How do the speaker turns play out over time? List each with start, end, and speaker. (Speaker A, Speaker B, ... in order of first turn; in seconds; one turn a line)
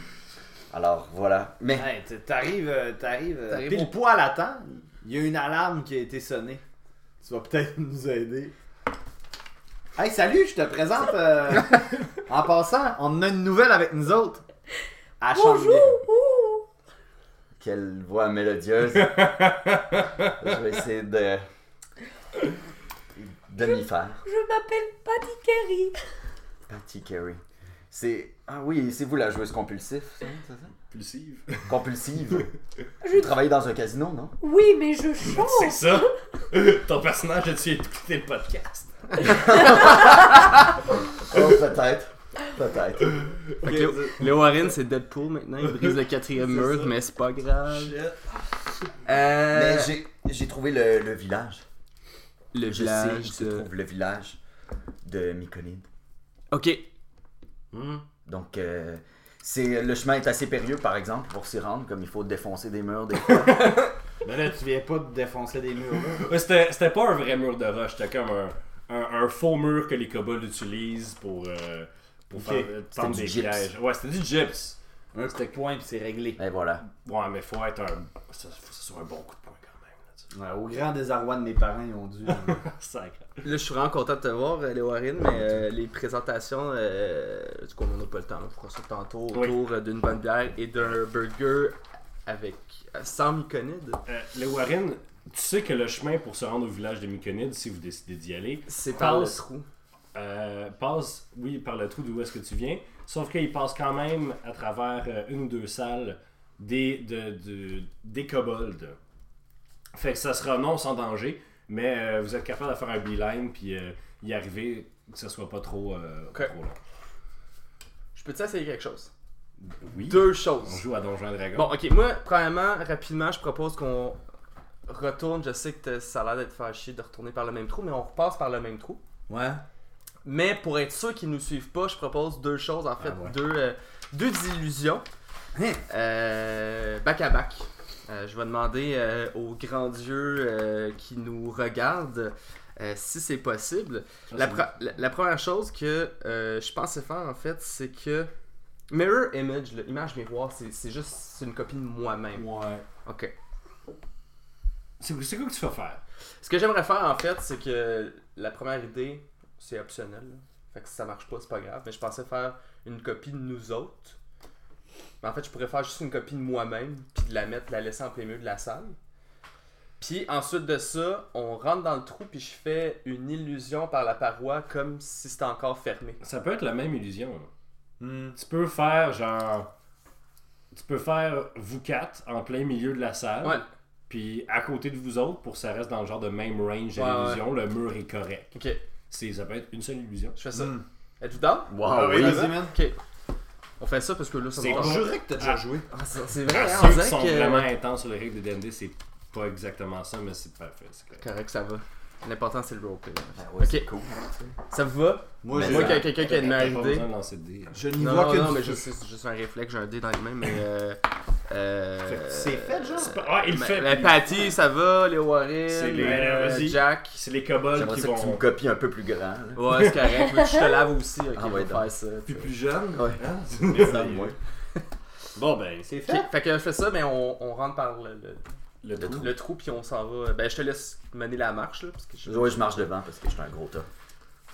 Speaker A: 0.7-1.9
Speaker B: 1.8-6.6
Speaker C: 3.5-3.9
Speaker B: 7.2-8.5
Speaker B: 10.0-14.4
Speaker B: 15.2-16.0
Speaker D: 15.3-16.6
Speaker A: 17.6-19.3
Speaker E: 18.9-20.3
Speaker A: 20.4-21.4
Speaker A: 23.2-24.2
Speaker D: 23.6-26.0
Speaker A: 26.7-30.7
Speaker E: 30.9-31.8
Speaker A: 31.7-32.5
Speaker D: 33.0-33.3
Speaker A: 33.1-34.4
Speaker D: 34.4-36.1
Speaker E: 35.3-39.9
Speaker A: 39.5-40.0
Speaker A: 41.2-43.3
Speaker B: 43.6-44.7
Speaker C: 43.6-48.0
Speaker E: 47.7-48.2
Speaker C: 49.0-50.0
Speaker A: 49.5-51.6
Speaker C: 52.5-53.7
Speaker A: 52.7-54.4
Speaker A: 55.0-55.9
Speaker C: 56.5-56.8
Speaker C: 57.8-58.0
Speaker A: 58.3-63.6
Speaker C: 63.5-63.9
Speaker B: 64.2-66.2
Speaker E: 66.2-74.8
Speaker B: 72.3-72.7
Speaker A: 72.9-73.7
Speaker B: 75.1-76.4
Speaker A: 76.4-76.8
Speaker E: 76.8-80.3
Speaker B: 80.3-82.6
Speaker E: 82.4-83.4
Speaker C: 83.4-94.0
Speaker E: 94.1-99.4
Speaker C: 98.7-99.7
Speaker E: 100.1-109.0
Speaker E: 109.9-116.8
Speaker C: 118.2-119.1
Speaker E: 119.6-121.7
Speaker C: 120.0-120.8
Speaker C: 121.5-124.2
Speaker C: 124.9-129.0
Speaker B: 129.3-129.6
Speaker C: 130.2-135.1
Speaker B: 133.0-133.3
Speaker B: 135.6-135.8
Speaker C: 135.9-148.3
Speaker C: 148.9-152.5
Speaker B: 152.3-152.8
Speaker C: 153.1-153.3
Speaker E: 155.0-156.0
Speaker C: 156.4-164.2
Speaker C: 165.2-169.0
Speaker C: 170.0-176.2
Speaker E: 176.2-177.5
Speaker B: 178.0-178.4
Speaker E: 178.4-179.7
Speaker E: 180.7-188.5
Speaker C: 186.9-187.4
Speaker C: 188.5-188.8
Speaker E: 189.1-190.4
Speaker C: 190.4-193.0
Speaker B: 190.5-190.8
Speaker A: 191.7-192.5
Speaker B: 191.8-192.8
Speaker C: 193.8-195.1
Speaker E: 194.6-195.6
Speaker B: 194.6-195.9
Speaker C: 195.9-197.7
Speaker E: 196.5-201.2
Speaker C: 201.2-203.9
Speaker A: 203.4-204.5
Speaker C: 204.7-207.1
Speaker B: 205.4-206.2
Speaker A: 205.5-206.0
Speaker E: 205.6-207.8
Speaker B: 207.7-208.9
Speaker C: 207.9-217.2
Speaker B: 212.0-213.2
Speaker E: 213.0-214.5
Speaker E: 215.7-218.4
Speaker B: 216.0-216.8
Speaker A: 217.7-219.6
Speaker C: 219.6-222.5
Speaker E: 219.7-220.0
Speaker A: 221.3-221.9
Speaker E: 222.3-224.3
Speaker A: 222.9-223.2
Speaker B: 223.7-224.3
Speaker A: 223.8-224.3
Speaker E: 225.4-225.9
Speaker B: 225.9-226.3
Speaker C: 226.1-228.4
Speaker E: 228.8-229.3
Speaker A: 229.0-229.3
Speaker C: 229.1-232.7
Speaker A: 232.2-233.9